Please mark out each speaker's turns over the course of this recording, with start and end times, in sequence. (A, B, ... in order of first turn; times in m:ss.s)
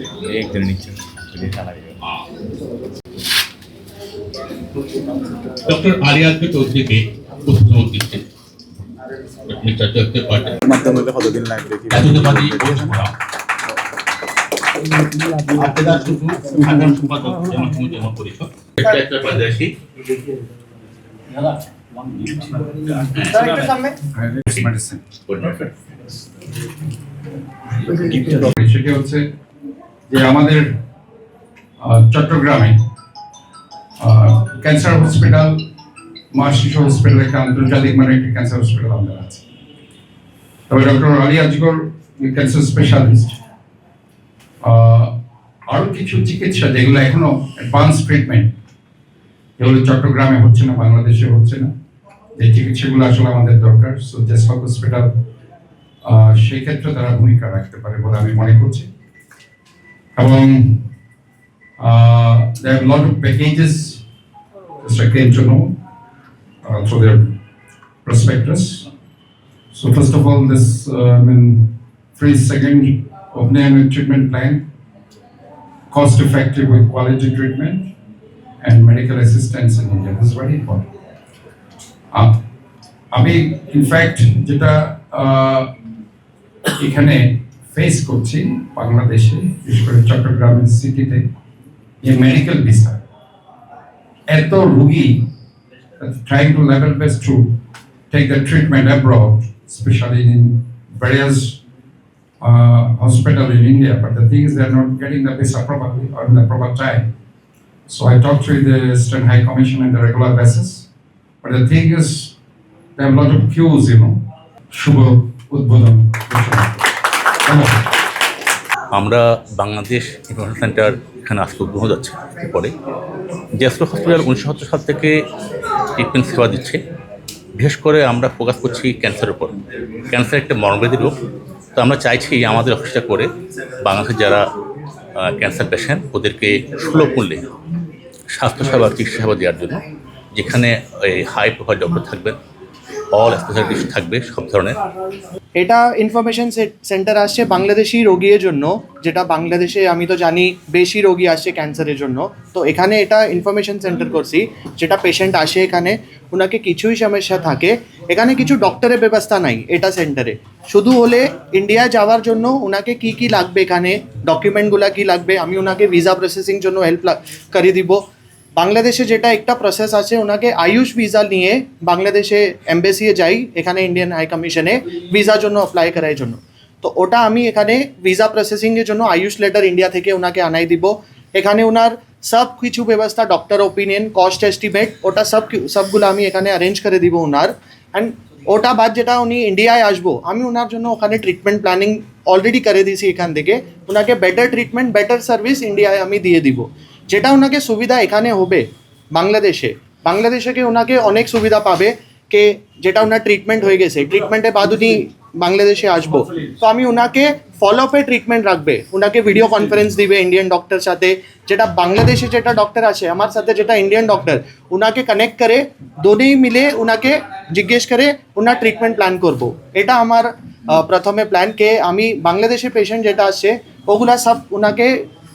0:00.2-0:02.0 A
0:05.6-0:08.3 B
0:09.5-0:10.6 B
0:10.6-0:12.9 A
0:11.9-0:13.2 B
0:15.3-0:19.8 B
0:22.1-0:23.7 B
0:23.3-0:24.0 C
0:24.1-0:25.0 D
0:25.2-0:25.7 B
0:27.9-0:29.3 D
0:30.1-0:30.8 D
0:31.8-0:32.8 D
0:34.0-0:35.6 D
0:36.3-0:39.4 D
0:40.7-0:43.4 D
0:44.6-0:45.1 D
0:45.7-0:48.5 D
0:49.6-0:51.7 D
0:52.4-0:55.2 D
0:56.0-0:58.9 D
1:00.2-1:00.9 D
1:01.8-1:04.0 D
1:04.8-1:05.8 D
1:06.6-1:07.3 D
1:08.0-1:08.9 D
1:09.7-1:14.6 D
1:15.9-1:17.9 D
1:18.6-1:20.9 D
1:22.1-1:22.4 D
1:23.1-1:25.7 D
1:26.8-1:31.3 D
1:32.0-1:33.0 D
1:34.3-1:35.3 D
1:36.0-1:37.6 D
1:38.1-1:41.6 D
1:42.4-1:47.0 D
1:47.9-1:50.9 D
1:51.4-1:52.3 D
1:53.0-1:54.2 D
1:54.7-1:56.8 D
1:57.4-1:57.8 D
1:58.9-2:02.7 B
2:03.6-2:05.2 B
2:06.0-2:06.8 B
2:07.5-2:11.2 B
2:11.8-2:14.5 B
2:15.2-2:17.5 B
2:18.3-2:22.4 B
2:23.1-2:24.8 B
2:25.6-2:48.0 C
2:48.6-3:45.1 C